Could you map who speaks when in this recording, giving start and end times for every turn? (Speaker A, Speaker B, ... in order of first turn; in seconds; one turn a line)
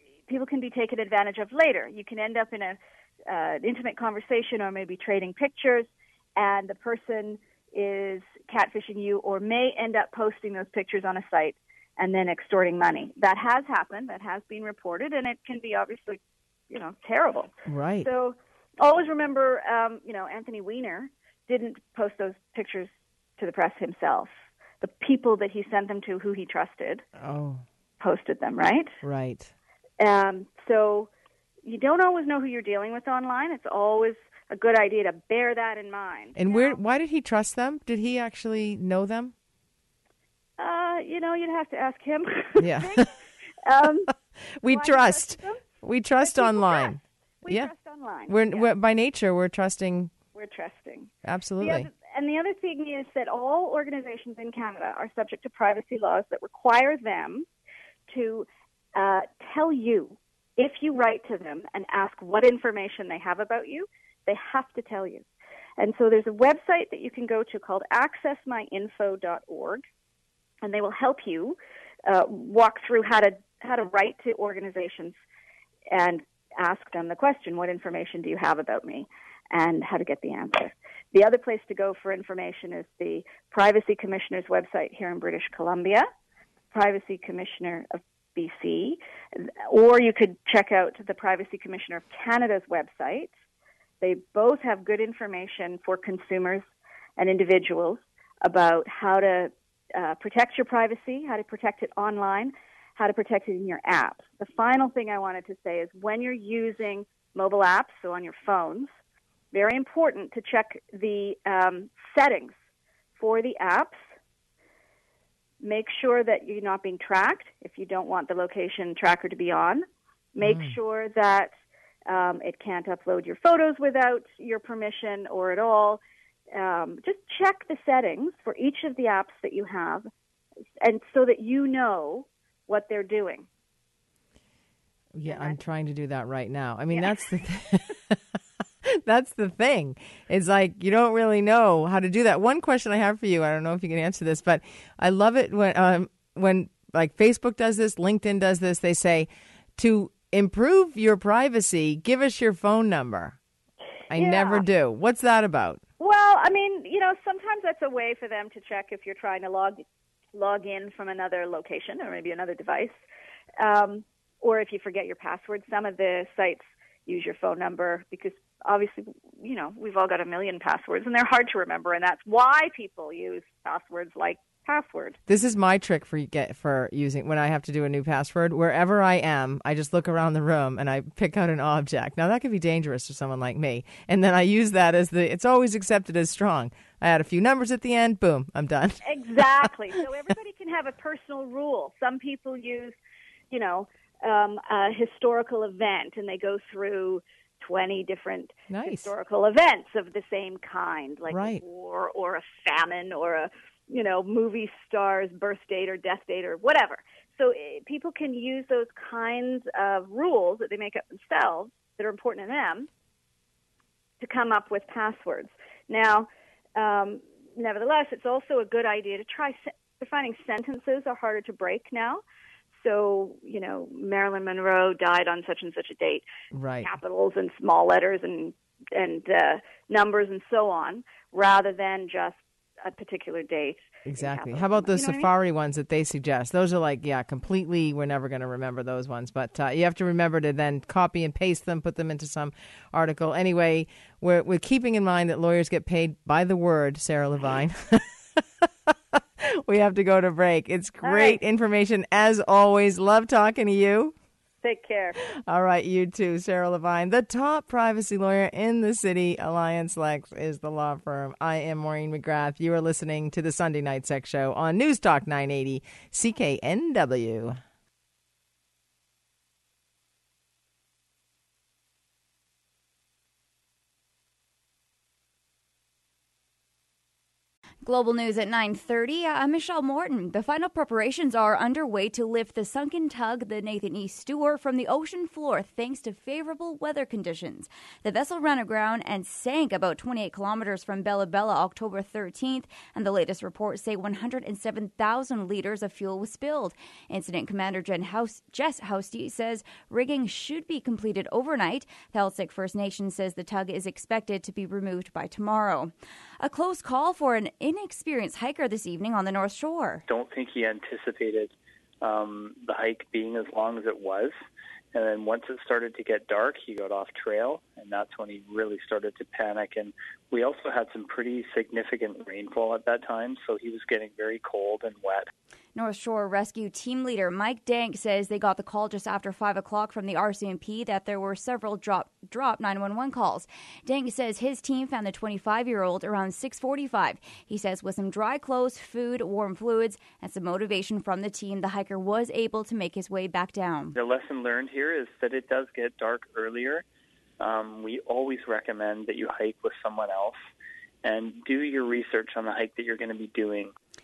Speaker A: 0.3-17.5
Speaker B: 17.7-18.1
Speaker A: 18.0-24.3
Speaker A: 24.8-27.1
Speaker B: 27.2-27.6
Speaker A: 28.0-28.9
Speaker B: 29.0-29.5
Speaker A: 30.0-31.1
Speaker A: 31.6-36.8
Speaker B: 36.4-39.3
Speaker A: 40.6-43.0
Speaker B: 42.6-43.1
Speaker A: 43.6-44.1
Speaker B: 44.6-47.7
Speaker A: 44.7-45.6
Speaker A: 46.2-46.9
Speaker A: 47.4-48.7
Speaker B: 48.3-50.1
Speaker A: 50.3-51.1
Speaker B: 51.2-51.9
Speaker A: 51.6-57.5
Speaker A: 58.1-65.2
Speaker A: 65.8-69.8
Speaker A: 70.6-75.2
Speaker A: 75.9-86.1
Speaker A: 86.7-93.3
Speaker A: 94.0-96.7
Speaker A: 97.2-108.9
Speaker A: 109.5-112.5
Speaker A: 113.2-114.0
Speaker A: 115.6-121.5
Speaker B: 120.4-120.8
Speaker A: 122.1-126.0
Speaker A: 126.5-130.1
Speaker A: 130.8-133.5
Speaker B: 135.1-138.2
Speaker A: 135.3-135.6
Speaker B: 138.8-153.4
Speaker B: 154.1-155.8
Speaker A: 154.1-154.6
Speaker A: 156.0-159.8
Speaker A: 160.3-163.0
Speaker A: 163.6-175.2
Speaker B: 175.3-189.7
Speaker A: 189.0-193.0
Speaker A: 193.5-212.9
Speaker B: 198.7-199.1
Speaker B: 201.3-201.6
Speaker A: 214.2-222.2
Speaker A: 222.8-226.2
Speaker B: 226.5-226.9
Speaker A: 226.8-235.3
Speaker B: 234.1-254.2
Speaker A: 251.0-251.4
Speaker A: 254.6-255.2
Speaker B: 255.5-267.6
Speaker C: 277.8-310.0
Speaker D: 310.1-314.4
Speaker D: 314.9-325.3
Speaker C: 325.8-343.9
Speaker D: 343.9-346.8
Speaker D: 347.4-350.4
Speaker D: 351.0-353.7